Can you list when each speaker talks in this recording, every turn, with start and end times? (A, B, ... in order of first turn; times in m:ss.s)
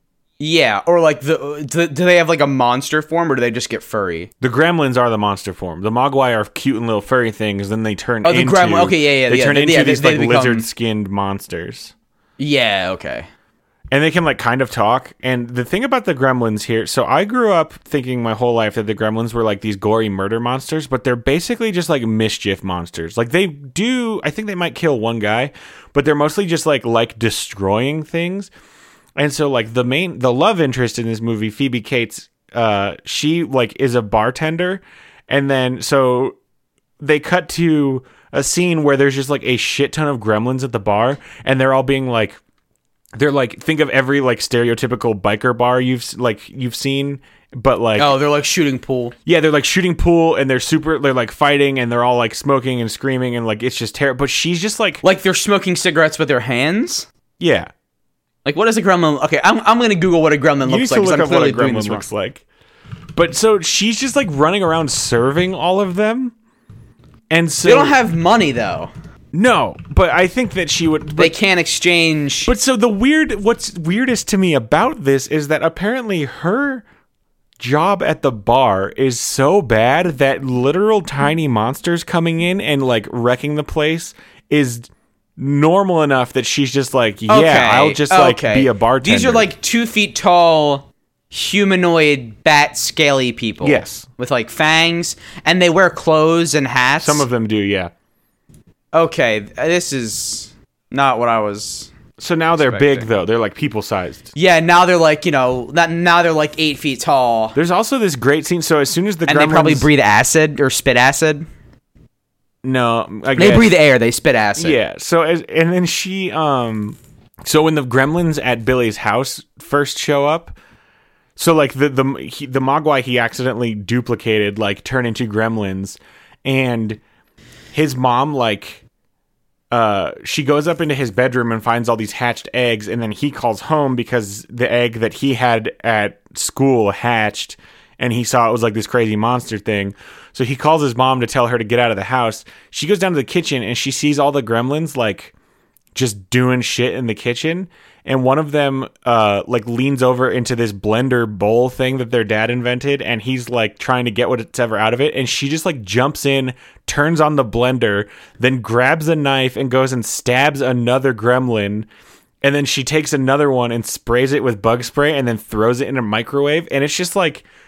0:00.4-0:04.3 A
0:04.4-0:11.9 B
0:08.2-0:10.7 A
0:12.4-0:13.3 A
0:13.9-0:28.5 B
0:29.2-0:36.4 B
0:37.0-0:42.4 B
0:43.2-0:48.2 B
0:48.0-0:49.2 A
0:49.3-0:55.0 B
0:55.0-0:57.1 A
0:57.4-0:57.7 B
0:58.4-1:02.0 A
1:00.6-1:02.4 B
1:03.2-1:06.4 B
1:07.3-1:08.0 B
1:07.6-1:08.9 A
1:09.3-1:11.4 B
1:11.2-1:12.5 A
1:12.5-1:16.8 B
1:17.6-1:29.5 B
1:27.3-1:37.3 A
1:33.6-1:34.1 B
1:37.0-1:37.9 B
1:38.9-1:41.9 A
1:42.2-1:44.3 B
1:42.6-1:43.1 A
1:44.4-1:47.6 A
1:47.6-1:49.9 B
1:49.3-1:51.5 A
1:52.6-1:53.8 B
1:53.4-1:54.8 A
1:54.6-2:00.6 B
2:01.4-2:07.0 B
2:07.7-2:08.8 B
2:09.7-2:25.3 B
2:25.9-2:41.9 B
2:42.4-2:47.4 B